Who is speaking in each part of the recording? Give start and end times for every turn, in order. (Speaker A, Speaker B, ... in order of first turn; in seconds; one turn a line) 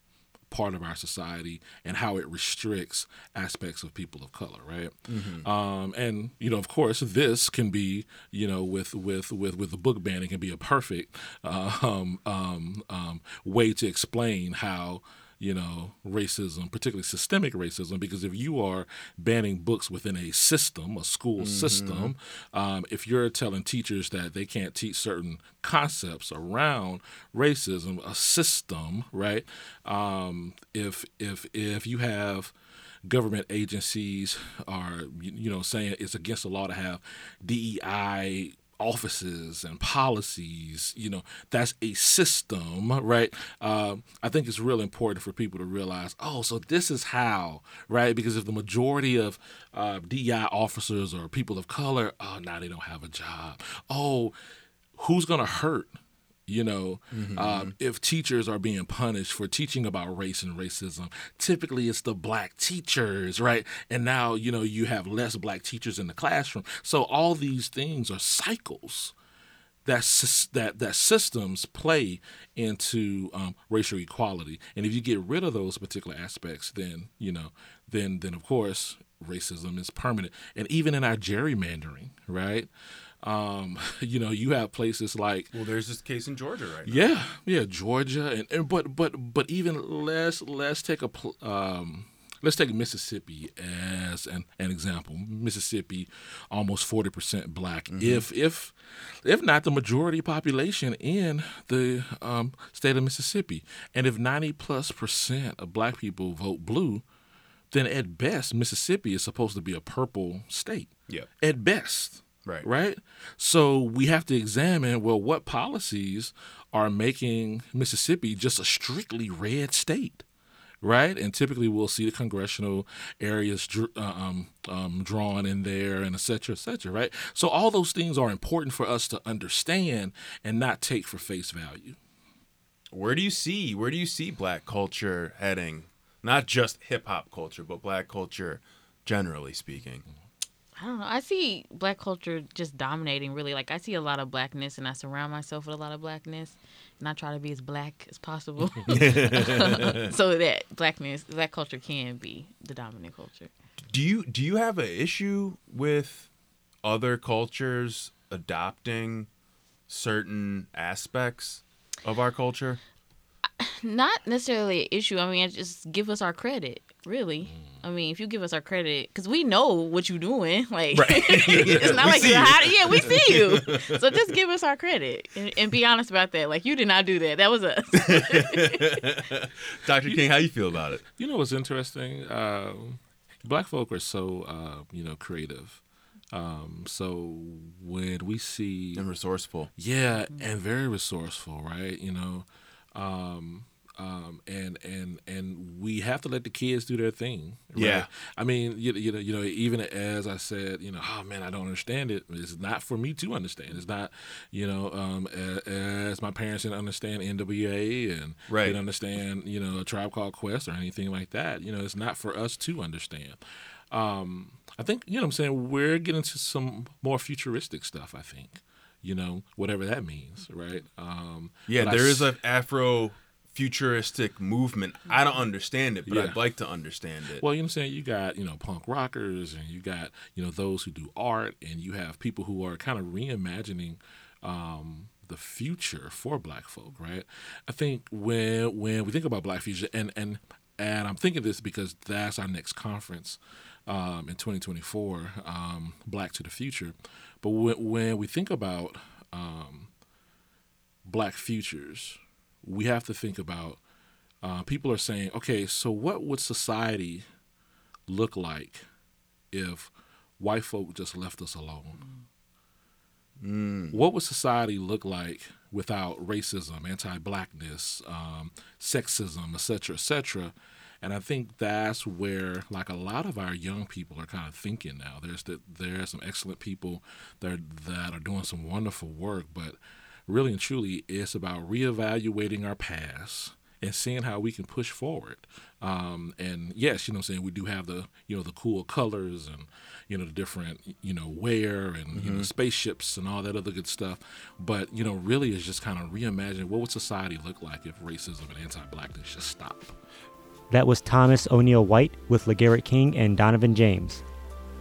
Speaker A: 0.5-32.5
Speaker B: 5.1-5.5
Speaker B: 21.4-22.1
Speaker A: 33.0-54.4
Speaker A: 55.0-69.1
Speaker B: 57.1-57.7
Speaker A: 69.8-82.7
Speaker A: 83.2-85.5
Speaker B: 85.5-87.1
Speaker A: 86.9-107.0
Speaker B: 97.9-98.2
Speaker A: 107.7-120.2
Speaker A: 120.8-132.0
Speaker B: 132.9-140.1
Speaker C: 140.8-153.5
Speaker B: 148.9-150.1
Speaker B: 153.9-156.3
Speaker B: 156.8-159.3
Speaker B: 159.9-162.8
Speaker C: 163.6-179.0
Speaker B: 170.9-174.2
Speaker B: 178.0-181.0
Speaker A: 181.2-189.1
Speaker B: 188.9-189.7
Speaker A: 189.8-213.4
Speaker B: 197.8-198.1
Speaker B: 208.5-208.8
Speaker A: 213.9-222.3
Speaker B: 221.7-227.4
Speaker A: 226.1-226.4
Speaker A: 227.4-249.9
Speaker A: 251.1-253.8
Speaker A: 254.4-257.2
Speaker A: 258.1-258.9
Speaker A: 259.5-262.1
Speaker B: 263.4-264.0
Speaker A: 263.9-300.0
Speaker B: 292.1-292.5
Speaker D: 300.7-304.2